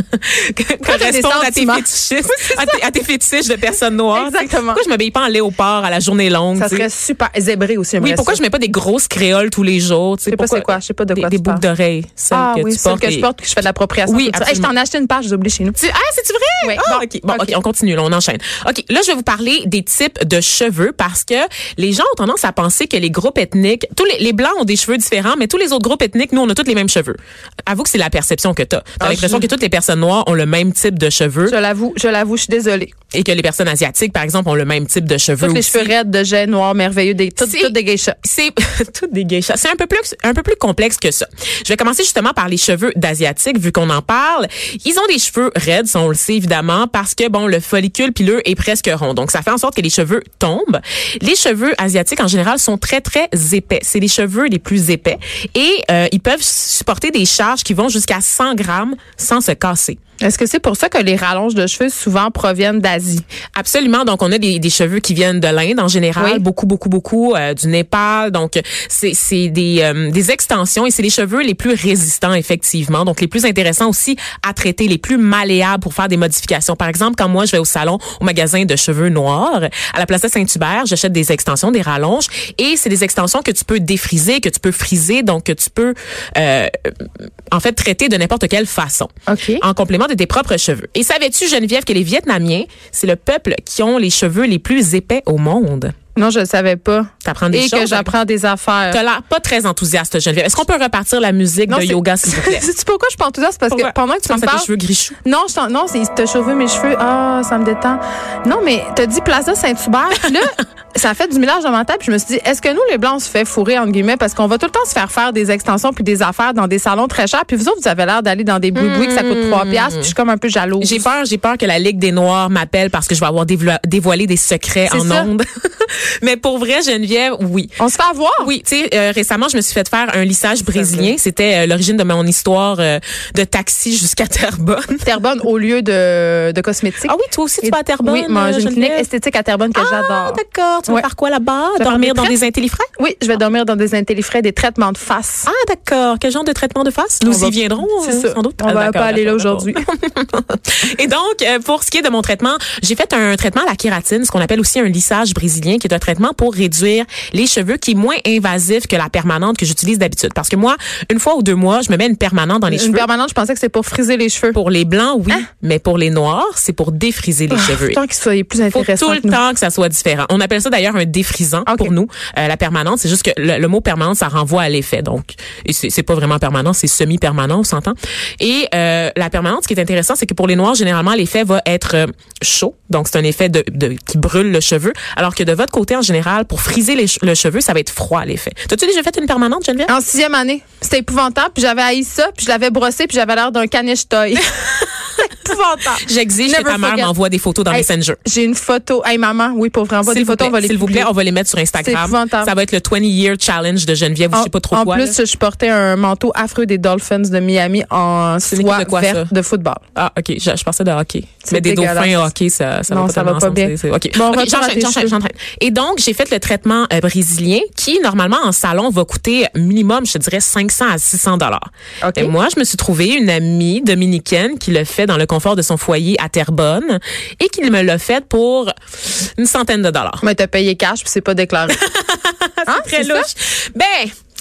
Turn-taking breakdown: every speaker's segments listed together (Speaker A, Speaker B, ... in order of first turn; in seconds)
Speaker A: 0.1-6.9, 8.0-13.3, 14.1-14.7, 15.8-31.6, 33.1-35.9, 37.4-60.0, 63.6-95.9, 97.2-98.1, 98.9-102.7, 103.7-105.2, 118.8-120.1, 120.8-127.8, 128.4-135.1, 137.1-139.1, 139.8-142.9, 145.5-163.1, 164.5-168.0, 168.7-189.9, 196.1-198.2, 200.1-205.2, 208.4-209.3, 210.0-228.7, 229.4-230.2, 231.7-234.1
Speaker B: 0.8-2.8, 4.1-4.8, 6.5-8.4, 10.3-11.6, 12.3-15.8, 16.6-17.5, 29.0-29.5, 31.4-32.9, 35.4-38.2, 60.2-63.2, 66.2-66.4, 89.3-89.6, 96.2-99.0, 101.7-104.7, 105.2-121.1, 124.9-125.3, 127.8-128.5, 130.7-131.2, 135.0-141.1, 141.8-142.4, 143.0-145.5, 147.2-149.7, 162.7-164.6, 167.5-169.4, 171.7-171.9, 189.9-194.5, 195.2-197.1, 197.7-201.1, 201.8-202.5, 204.3-209.8, 211.4-212.3, 212.9-215.2, 222.0-222.3, 230.2-231.8, 232.7-233.3